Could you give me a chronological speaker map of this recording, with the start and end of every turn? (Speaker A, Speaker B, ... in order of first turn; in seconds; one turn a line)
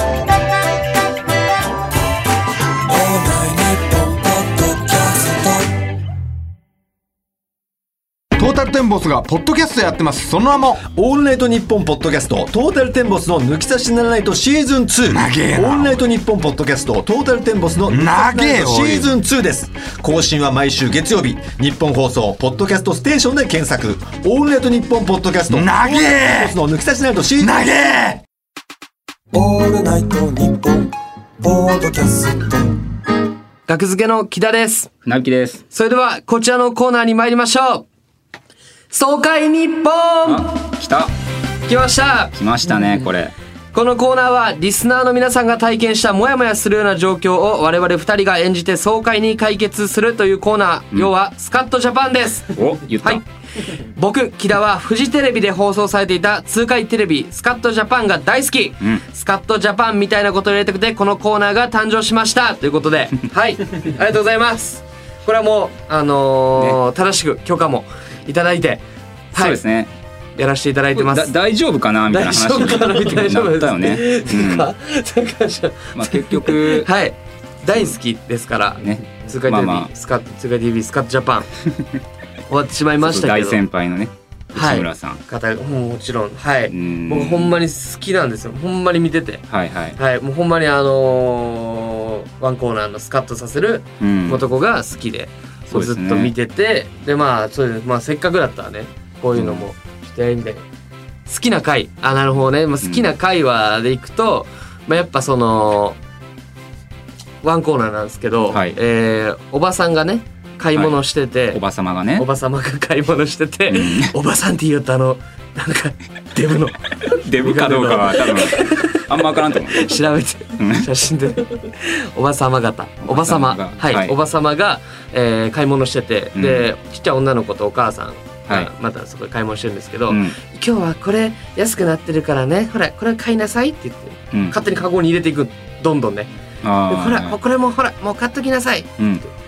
Speaker A: 2.8-5.8
Speaker B: 8.4-10.8
Speaker C: 10.8-27.6
Speaker B: 15.1-16.0
Speaker B: 17.9-19.1
Speaker B: 25.5-26.5
Speaker B: 27.4-28.2
Speaker A: 29.3-32.8
Speaker D: 33.7-34.9
Speaker E: 35.0-35.6
Speaker D: 35.7-37.9
Speaker D: 38.9-40.5
Speaker E: 40.2-41.1
Speaker D: 41.7-42.4
Speaker E: 42.3-43.3
Speaker D: 43.7-69.6
Speaker E: 52.5-53.2
Speaker E: 69.4-69.9
Speaker D: 70.4-71.3
Speaker E: 71.0-74.7
Speaker D: 72.1-81.5
Speaker E: 76.0-76.9
Speaker E: 78.8-79.9
Speaker D: 82.5-83.6
Speaker E: 83.0-85.2
Speaker D: 84.5-89.4
Speaker E: 86.7-87.5
Speaker E: 89.5-90.0
Speaker D: 90.0-100.6
Speaker E: 94.0-94.4
Speaker E: 95.7-96.3
Speaker E: 99.3-99.7
Speaker D: 101.3-106.0
Speaker E: 102.8-103.1
Speaker D: 107.4-111.6
Speaker E: 108.5-108.8
Speaker E: 111.5-112.3
Speaker D: 112.2-119.2
Speaker E: 113.7-114.1
Speaker E: 117.1-120.0
Speaker D: 119.7-136.3
Speaker E: 120.6-120.9
Speaker E: 123.1-124.2
Speaker E: 126.4-126.7
Speaker E: 130.1-130.4
Speaker E: 134.3-134.6
Speaker E: 136.6-137.4
Speaker D: 136.9-138.9
Speaker E: 139.0-139.3